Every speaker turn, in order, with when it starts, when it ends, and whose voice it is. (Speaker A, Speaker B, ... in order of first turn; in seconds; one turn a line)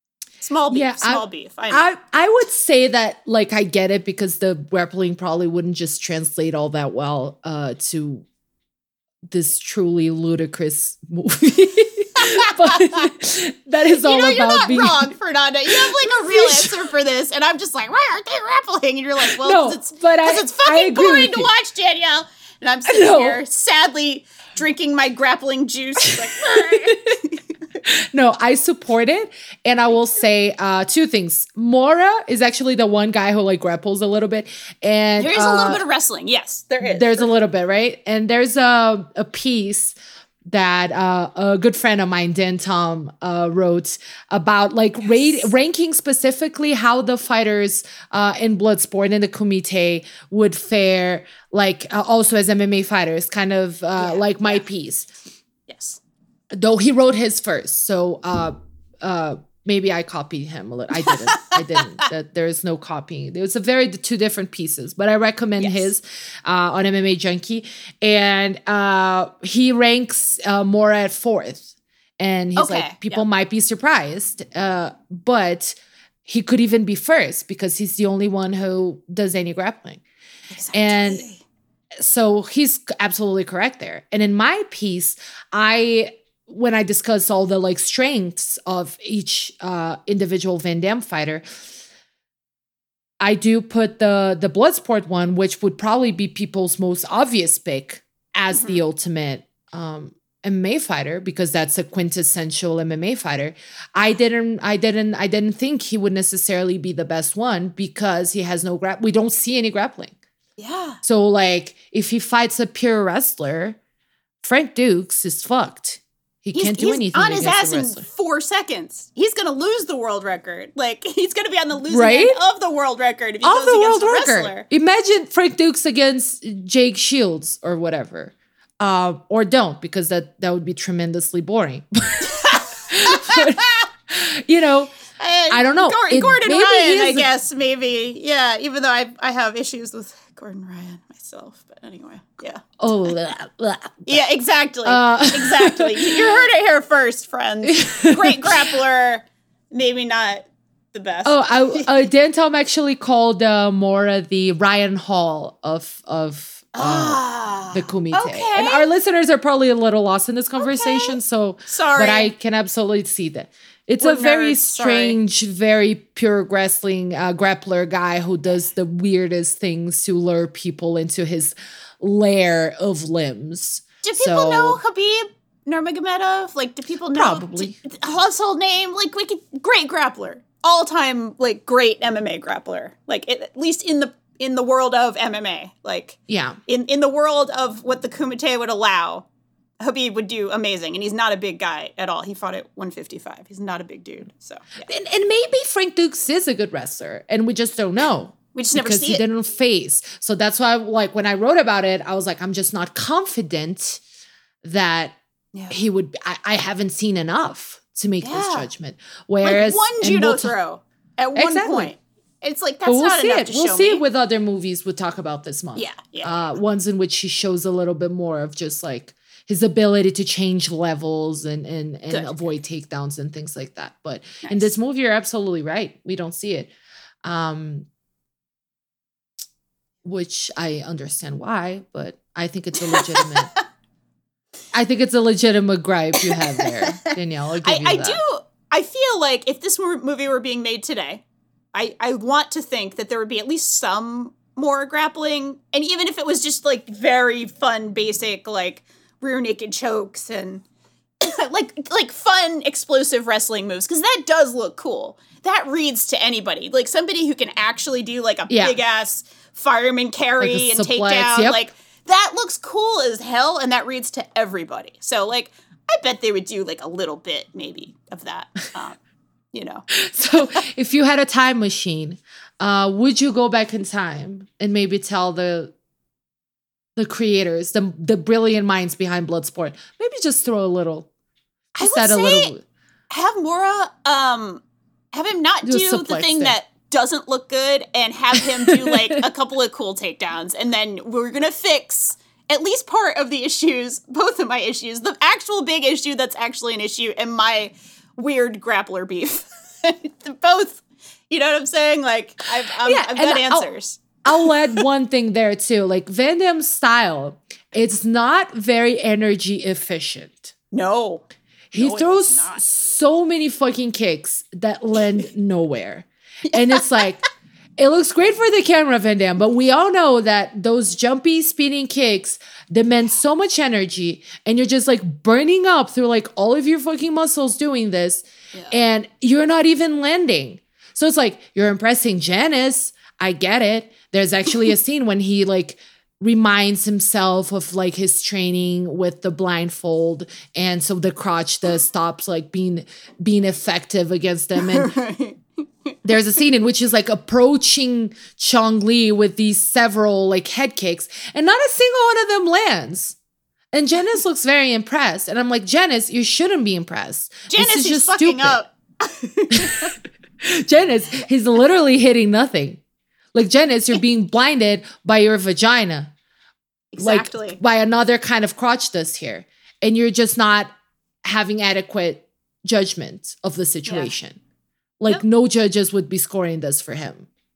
Speaker A: 0.4-1.9
Speaker B: 0.7-8.2
Speaker B: 9.2-15.1
Speaker A: 12.2-13.1
Speaker A: 13.9-27.4
Speaker B: 15.7-16.8
Speaker B: 19.2-21.5
Speaker B: 22.9-23.4
Speaker B: 26.0-27.2
Speaker B: 27.8-35.8
Speaker A: 35.2-37.3
Speaker B: 36.8-55.1
Speaker A: 54.0-54.6
Speaker A: 55.7-56.0
Speaker B: 56.5-80.0
Speaker A: 61.1-62.0
Speaker A: 65.6-65.9
Speaker A: 72.5-73.2
Speaker A: 80.5-81.4
Speaker B: 80.7-81.2
Speaker B: 82.0-91.4
Speaker B: 93.2-110.1
Speaker A: 98.5-98.8
Speaker A: 110.6-111.0
Speaker B: 111.0-113.8
Speaker B: 114.4-118.0
Speaker A: 116.5-124.7
Speaker B: 121.9-122.4
Speaker B: 123.4-134.9
Speaker A: 132.3-133.8
Speaker A: 135.2-142.7
Speaker B: 135.5-137.3
Speaker B: 142.8-144.2
Speaker A: 144.1-152.0
Speaker B: 144.8-146.4
Speaker B: 147.7-148.7
Speaker B: 151.2-174.8
Speaker A: 156.7-158.8
Speaker A: 160.6-162.3
Speaker A: 164.0-165.2
Speaker A: 174.0-189.2
Speaker B: 177.1-177.8
Speaker B: 186.3-186.6
Speaker A: 189.8-194.9
Speaker B: 194.8-204.0
Speaker A: 198.5-199.2
Speaker B: 204.6-205.2
Speaker A: 205.5-205.8
Speaker B: 205.7-210.5
Speaker A: 208.2-208.7
Speaker A: 209.4-214.0
Speaker B: 211.3-211.9
Speaker B: 212.8-226.7
Speaker A: 215.7-216.5
Speaker A: 222.1-222.5
Speaker A: 224.4-224.7
Speaker B: 227.2-227.9
Speaker B: 230.0-233.5
Speaker A: 232.9-233.3
Speaker B: 234.7-238.2
Speaker A: 236.2-241.2
Speaker A: 241.7-250.6
Speaker A: 251.2-269.0
Speaker B: 258.5-258.8
Speaker B: 260.4-261.6
Speaker A: 269.5-269.9
Speaker B: 269.9-275.7
Speaker B: 276.9-281.1
Speaker B: 281.7-282.6
Speaker A: 281.8-282.5
Speaker A: 283.1-284.6
Speaker A: 285.1-304.8
Speaker B: 285.6-286.6
Speaker B: 288.7-289.2
Speaker B: 302.8-303.7
Speaker B: 304.2-310.5
Speaker A: 310.7-312.6
Speaker B: 311.7-317.2
Speaker A: 316.5-317.0
Speaker B: 317.8-344.9
Speaker A: 344.6-345.4
Speaker B: 346.0-353.2
Speaker B: 353.7-358.6
Speaker A: 357.5-359.9
Speaker B: 359.5-362.8
Speaker B: 363.3-366.1
Speaker A: 366.9-367.6
Speaker B: 367.0-370.7
Speaker B: 371.2-374.4
Speaker A: 373.9-374.1
Speaker B: 375.0-377.3